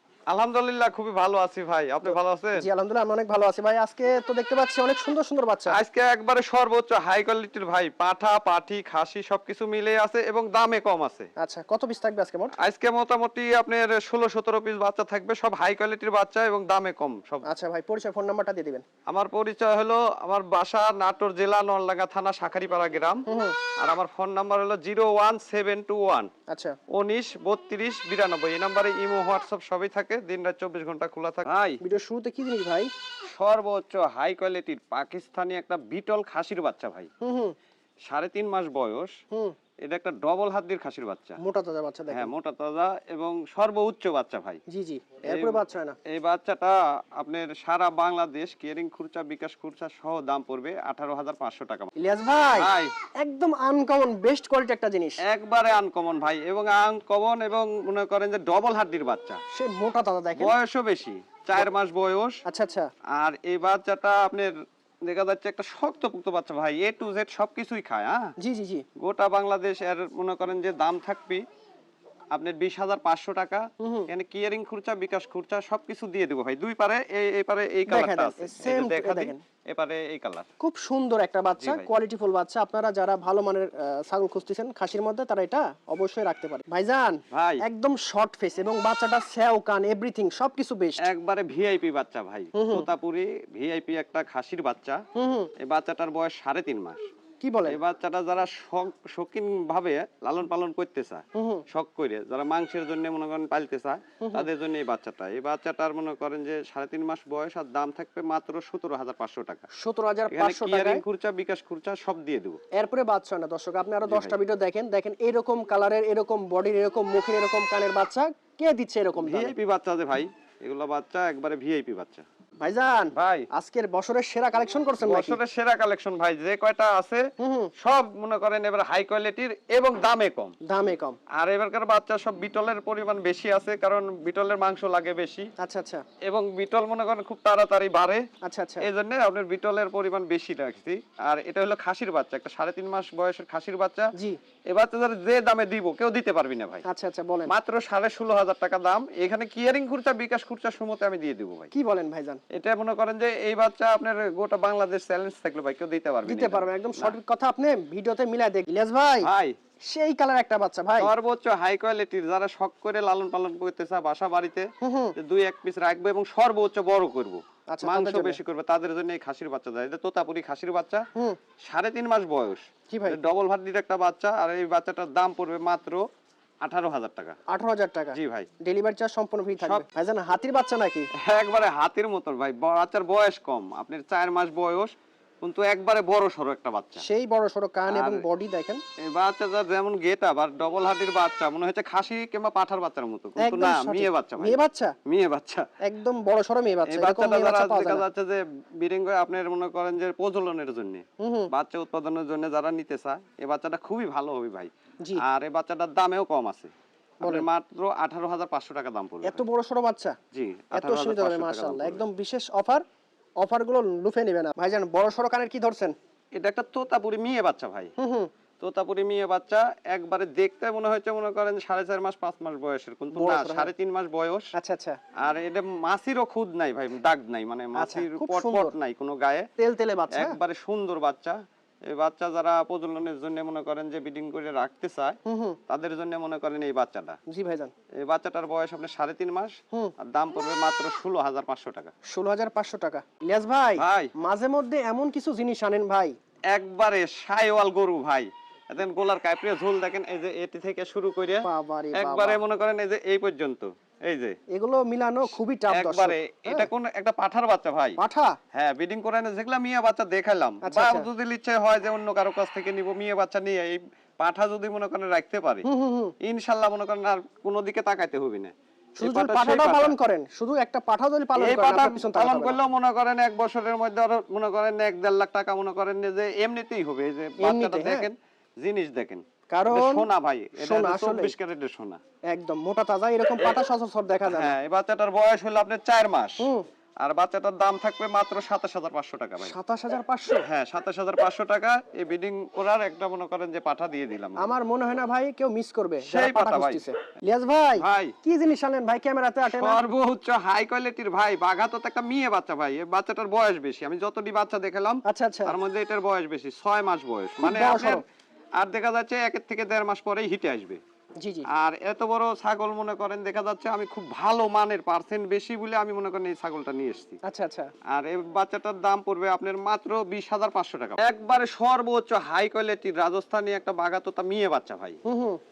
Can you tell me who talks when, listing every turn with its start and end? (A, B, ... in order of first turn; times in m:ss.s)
0:00.3-0:02.6 A
0:02.1-0:05.8 B
0:05.7-0:11.3 A
0:11.4-0:12.5 B
0:12.6-0:17.4 A
0:17.4-0:18.8 B
0:19.1-0:23.2 A
0:23.3-0:23.6 B
0:23.8-0:26.3 A
0:26.5-0:26.8 B
0:26.9-0:31.8 A
0:31.8-0:32.9 B
0:33.3-0:37.1 A
0:37.2-0:37.5 B
0:38.1-0:39.1 A
0:39.8-0:41.4 A
0:41.4-0:42.3 B
0:42.1-0:44.6 A
0:44.7-0:46.0 B
0:45.3-0:51.9 A
0:52.0-0:55.2 B
0:52.5-0:52.9 A
0:55.2-0:59.4 A
0:59.5-1:00.5 B
1:00.4-1:02.4 A
1:02.5-1:02.9 B
1:03.1-1:04.5 A
1:05.1-1:08.3 A
1:08.4-1:08.8 B
1:09.0-1:11.4 A
1:12.3-1:20.5 A
1:13.8-1:14.1 B
1:17.9-1:19.4 B
1:20.6-1:31.0 B
1:21.6-1:21.9 A
1:27.3-1:27.6 A
1:31.0-1:35.0 A
1:32.6-1:32.9 B
1:35.2-1:35.5 B
1:35.6-1:37.0 A
1:37.4-1:37.8 B
1:37.7-1:49.6 A
1:41.4-1:41.6 B
1:44.2-1:44.4 B
1:49.7-1:51.0 B
1:50.3-1:52.6 A
1:52.7-1:59.5 B
1:54.0-1:54.4 A
1:59.2-2:02.2 A
2:02.6-2:05.4 B
2:03.1-2:03.5 A
2:05.0-2:07.3 A
2:07.4-2:07.7 B
2:07.8-2:10.6 A
2:10.7-2:11.2 B
2:11.4-2:15.5 A
2:15.6-2:16.0 B
2:16.2-2:18.2 A
2:18.4-2:18.8 B
2:18.8-2:24.1 A
2:24.7-2:26.8 A
2:26.8-2:27.5 B
2:27.5-2:31.7 A
2:31.7-2:32.4 B
2:32.5-2:37.2 A
2:36.2-2:39.3 B
2:39.2-2:39.5 A
2:39.9-2:41.1 B
2:41.0-2:51.0 A
2:44.8-2:45.2 B
2:47.7-2:48.4 B
2:51.6-2:56.0 A
2:52.9-2:53.2 B
2:56.6-2:57.4 A
2:57.5-3:01.1 B
2:58.1-2:58.5 A
3:01.2-3:07.0 A
3:07.0-3:08.8 B
3:07.9-3:08.2 A
3:09.1-3:15.7 A
3:13.4-3:15.0 B
3:15.8-3:18.0 B
3:16.9-3:24.7 A
3:21.2-3:21.5 B
3:25.2-3:26.7 A
3:27.2-3:29.4 A
3:29.2-3:30.2 B
3:30.3-3:32.0 A
3:30.7-3:32.8 B
3:33.4-3:35.9 B
3:36.4-3:37.9 A
3:38.0-3:38.3 B
3:38.6-3:44.5 A
3:43.1-3:43.7 B
3:44.6-3:45.0 B
3:45.2-3:49.5 A
3:47.8-3:48.7 B
3:49.6-3:50.4 B
3:50.1-3:51.4 A
3:51.9-3:55.2 A
3:55.2-3:55.6 B
3:55.7-3:57.2 A
3:57.3-3:57.7 B
3:58.0-4:01.9 A
4:02.1-4:06.1 B
4:03.8-4:04.1 A
4:06.5-4:14.4 A
4:11.4-4:12.4 B
4:14.5-4:16.7 B
4:15.7-4:18.0 A
4:18.0-4:18.4 B
4:18.5-4:25.6 A
4:20.6-4:21.1 B
4:25.6-4:26.1 B
4:26.2-4:29.9 A
4:29.0-4:32.6 B
4:31.4-4:42.0 A
4:37.4-4:38.1 B
4:39.5-4:40.0 B
4:40.6-4:41.3 B
4:42.3-4:44.6 B
4:44.2-4:49.5 A
4:46.4-4:46.6 B
4:49.4-4:50.4 B
4:50.4-4:54.5 A
4:54.4-4:59.8 B
4:56.0-4:56.9 A
4:57.8-4:58.1 A
4:59.4-5:08.0 A
5:05.0-5:05.6 B
5:07.4-5:08.0 B
5:08.6-5:10.8 A
5:11.2-5:11.5 B
5:11.5-5:17.2 A
5:17.2-5:17.7 B
5:17.9-5:25.0 A
5:25.0-5:25.4 B